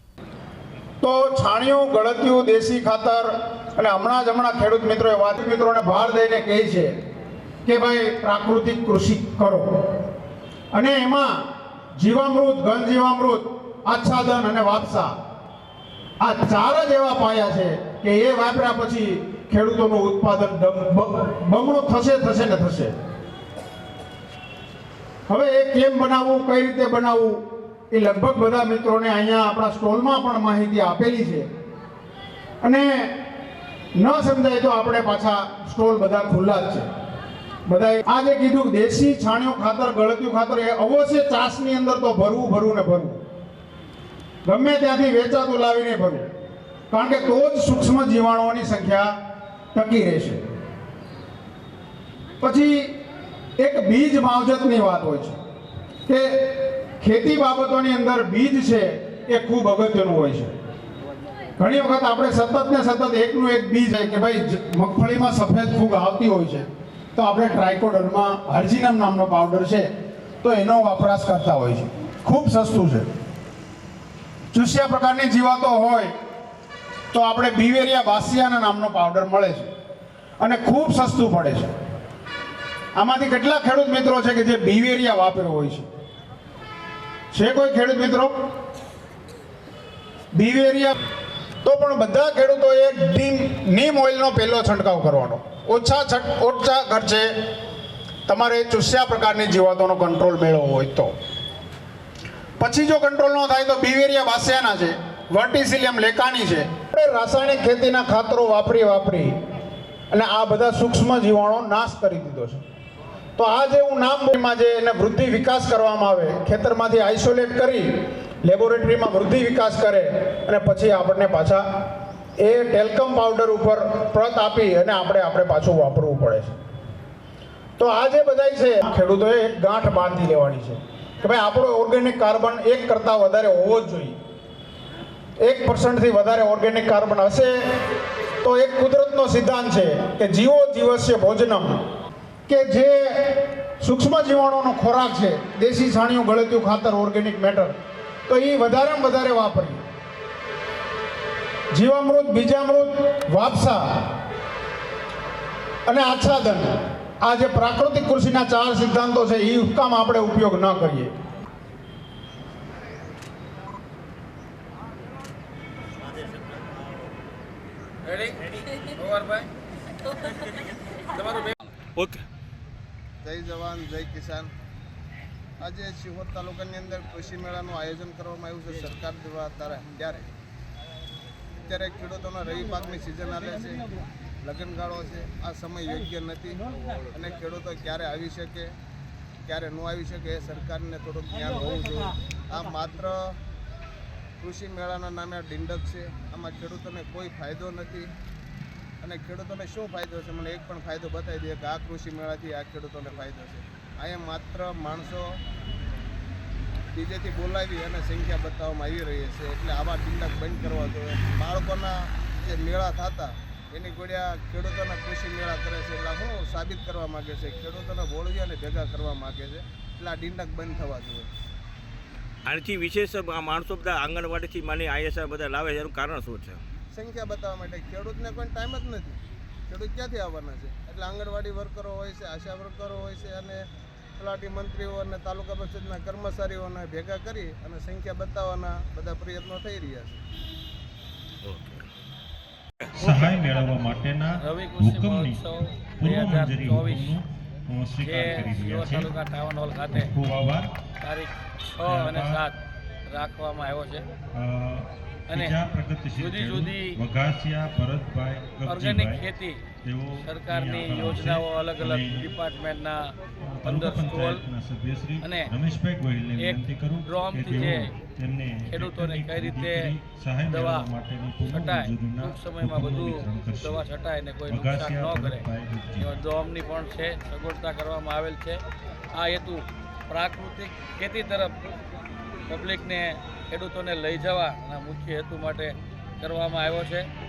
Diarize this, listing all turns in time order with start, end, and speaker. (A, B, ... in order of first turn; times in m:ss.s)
0:01.0-0:06.9 A
0:07.6-0:09.7 A
0:10.7-0:11.4 A
0:12.0-0:15.1 A
0:16.2-0:22.9 A
0:25.3-0:31.5 A
0:32.6-0:33.2 A
0:34.0-0:36.9 A
0:37.6-0:43.2 A
0:44.4-0:46.3 A
0:46.9-0:49.2 A
0:49.7-0:50.4 A
0:52.4-0:52.9 A
0:53.6-0:55.4 A
0:56.1-1:00.5 A
1:01.6-1:09.9 A
1:10.4-1:13.1 A
1:14.5-1:16.1 A
1:17.1-1:19.7 A
1:20.4-1:21.7 A
1:23.0-1:25.9 A
1:27.3-1:28.3 A
1:30.3-1:31.0 A
1:31.6-1:37.3 A
1:38.3-1:41.1 A
1:42.6-1:49.3 A
1:50.1-1:52.6 A
1:53.4-1:57.9 A
1:58.4-2:01.6 A
2:02.4-2:06.6 A
2:07.8-2:14.2 A
2:15.4-2:17.8 A
2:18.4-2:21.8 A
2:22.5-2:27.8 A
2:28.3-2:29.8 A
2:31.7-2:34.1 A
2:35.8-2:41.1 A
2:48.0-2:49.5 B
2:51.2-2:51.5 B
2:52.0-2:52.2 C
2:53.2-2:54.5 D
2:55.6-3:00.3 D
3:01.6-3:03.9 D
3:04.4-3:08.7 D
3:09.4-3:13.3 D
3:14.4-3:18.1 D
3:19.0-3:25.3 D
3:26.9-3:41.3 D
3:42.4-3:46.6 C
3:46.9-3:53.6 D
3:54.2-4:00.2 D
4:01.4-4:01.8 C
4:02.9-4:09.1 E
4:03.0-4:03.5 B
4:04.4-4:07.1 B
4:08.0-4:10.1 B
4:09.9-4:10.7 E
4:11.0-4:14.0 B
4:11.8-4:12.4 E
4:14.3-4:19.2 E
4:16.2-4:16.9 B
4:18.6-4:19.6 B
4:19.8-4:22.3 E
4:20.2-4:24.4 B
4:23.4-4:33.9 E
4:25.2-4:25.5 B
4:26.4-4:27.9 B
4:28.7-4:29.9 B
4:30.5-4:30.8 B
4:31.4-4:35.4 B
4:34.5-4:36.1 E
4:36.0-4:38.6 B
4:39.1-4:41.6 B
4:42.5-4:47.1 B